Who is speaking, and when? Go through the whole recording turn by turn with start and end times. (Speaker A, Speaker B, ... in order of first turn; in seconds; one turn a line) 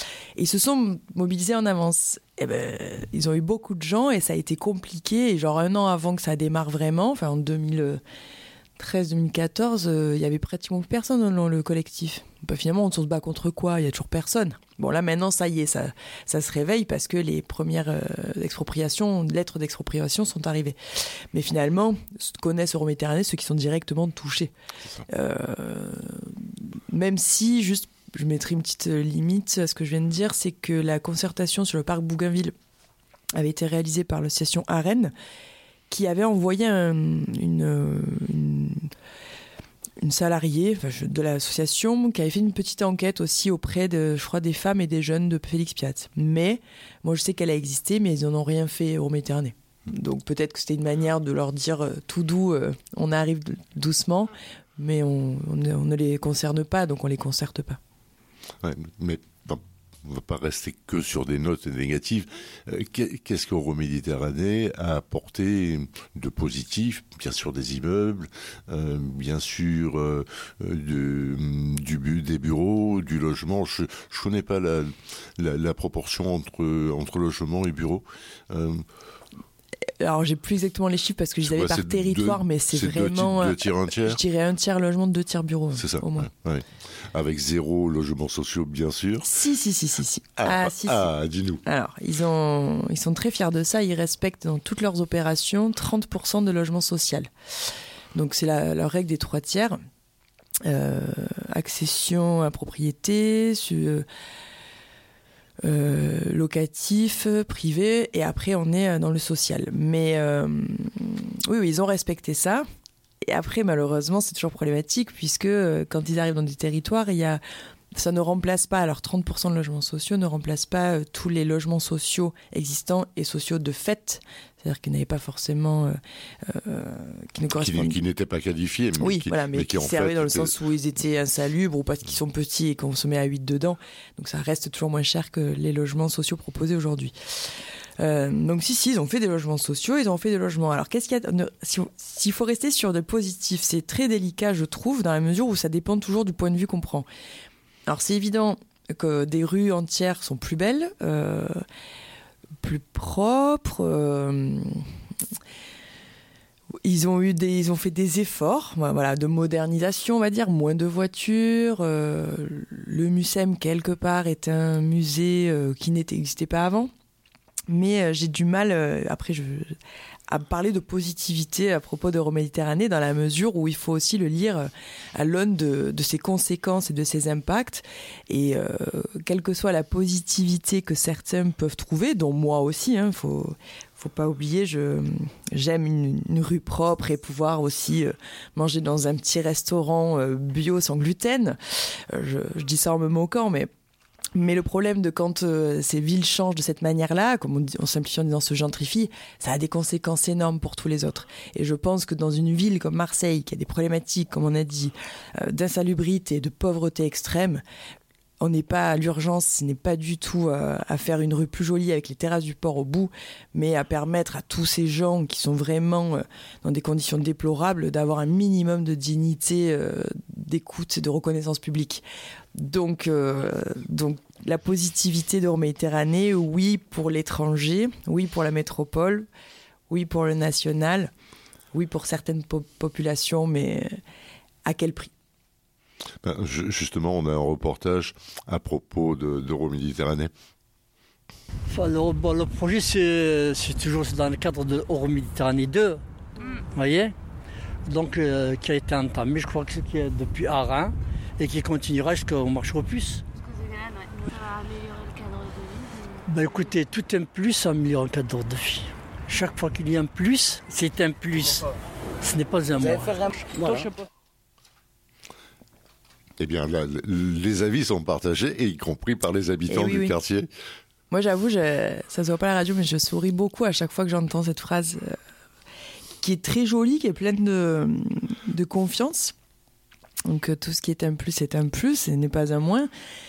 Speaker A: 0.3-8.0
Speaker A: 8.8-24.5
Speaker A: 25.1-32.5
Speaker A: 33.3-35.1
Speaker A: 35.9-38.9
Speaker A: 40.0-57.8
Speaker B: 58.6-78.8
Speaker A: 80.0-86.3
Speaker B: 81.4-84.2
Speaker B: 85.8-89.3
Speaker A: 89.2-91.1
Speaker B: 90.4-91.6
Speaker A: 91.7-97.3
Speaker A: 98.1-99.8
Speaker A: 100.6-104.0
Speaker A: 105.6-112.7
Speaker A: 113.2-117.4
Speaker A: 117.9-128.0
Speaker B: 127.5-130.5
Speaker A: 129.0-137.1
Speaker A: 138.0-147.1
Speaker A: 147.9-151.6
Speaker A: 152.6-154.8
Speaker A: 156.8-166.9
Speaker A: 167.7-169.8
Speaker A: 170.3-193.7
Speaker A: 194.3-207.6
Speaker A: 208.4-222.0
Speaker A: 222.5-229.3
Speaker A: 229.9-231.1
Speaker A: 231.7-234.0
Speaker A: 234.7-235.1
Speaker B: 236.2-240.3
Speaker C: 241.7-246.0
Speaker D: 246.4-246.6
Speaker C: 246.7-247.1
Speaker C: 247.9-253.2
Speaker D: 253.3-256.7
Speaker C: 256.3-261.6
Speaker C: 262.2-263.2
Speaker B: 266.4-270.5
Speaker A: 269.7-270.1
Speaker A: 271.1-275.2
Speaker A: 276.2-279.3
Speaker A: 280.3-282.9